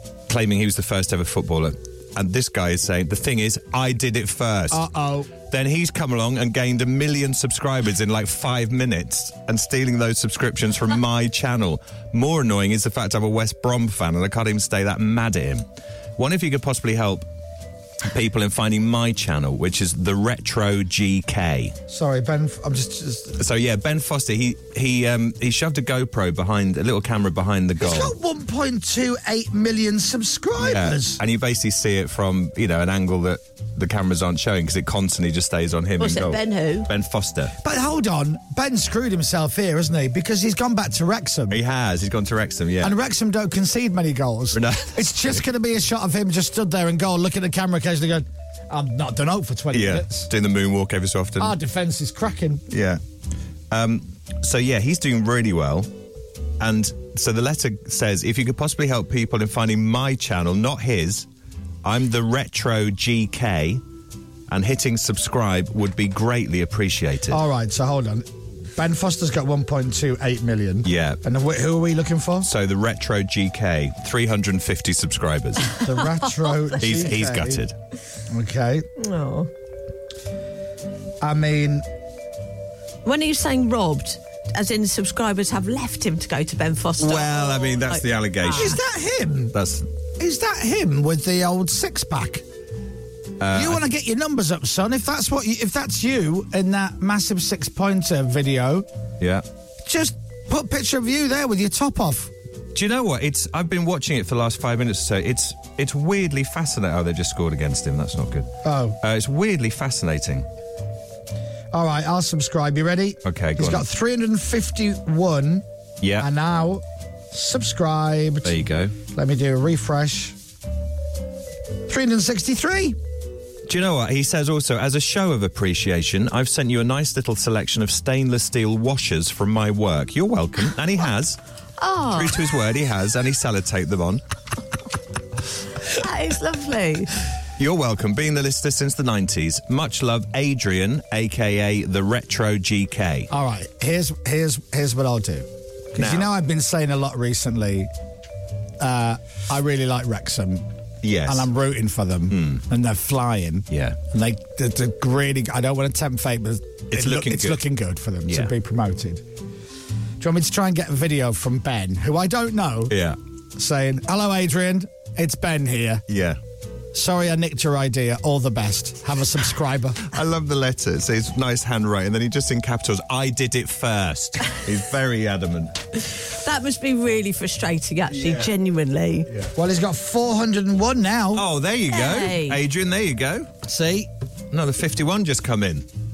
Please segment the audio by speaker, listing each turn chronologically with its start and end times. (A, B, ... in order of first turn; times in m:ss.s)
0:00.3-0:04.8 A
0:04.7-0:05.3 B
0:05.5-0:15.6 A
0:16.2-0:17.2 A
0:18.0-0:21.8 A
0:21.9-0:23.4 B
0:23.4-0:28.1 A
0:27.8-0:31.2 B
0:30.6-0:37.6 A
0:36.0-0:36.9 C
0:37.6-0:41.6 B
0:41.5-0:42.9 A
0:42.8-0:50.3 B
0:44.5-0:45.4 A
0:49.7-0:51.6 A
0:51.4-0:52.6 B
0:52.7-0:53.0 A
0:53.7-0:55.9 A
0:56.6-1:01.3 A
1:01.8-1:03.8 A
1:04.5-1:07.4 A
1:07.3-1:12.5 B
1:10.8-1:11.2 A
1:12.4-1:15.8 A
1:15.7-1:17.0 C
1:15.8-1:17.6 B
1:16.8-1:17.8 A
1:18.3-1:18.9 B
1:19.0-1:19.5 C
1:21.2-1:21.8 B
1:23.0-1:28.8 C
1:27.0-1:28.8 A
1:28.5-1:29.5 B
1:29.5-1:29.9 A
1:30.2-1:32.4 B
1:33.4-1:33.8 A
1:33.5-1:38.9 B
1:39.8-1:42.3 B
1:42.8-1:48.5 A
1:48.6-1:49.0 B
1:49.0-1:50.5 A
1:51.7-1:55.6 B
1:53.2-1:53.8 A
1:56.0-1:56.3 A
1:56.2-1:58.6 B
1:58.4-1:59.0 A
1:59.1-2:00.4 B
2:01.9-2:03.0 B
2:03.7-2:11.4 A
2:11.8-2:12.4 C
2:12.2-2:14.2 A
2:16.0-2:17.1 C
2:17.6-2:23.3 A
2:23.3-2:27.9 B
2:26.0-2:26.3 A
2:28.8-2:30.7 B
2:31.0-2:31.5 A
2:31.3-2:39.2 B
2:32.3-2:32.6 A
2:33.7-2:34.0 A
2:36.9-2:37.6 A
2:38.3-2:38.5 A
2:40.2-2:43.0 B
2:42.9-2:43.2 A
2:43.6-2:46.0 B
2:46.1-2:46.4 A
2:46.9-2:50.0 B
2:50.0-2:55.8 A
2:56.1-2:59.3 C
2:58.1-2:58.5 A
2:59.6-3:01.5 B
3:01.4-3:03.6 A
3:01.9-3:02.6 C
3:03.6-3:04.1 B
3:04.5-3:05.8 A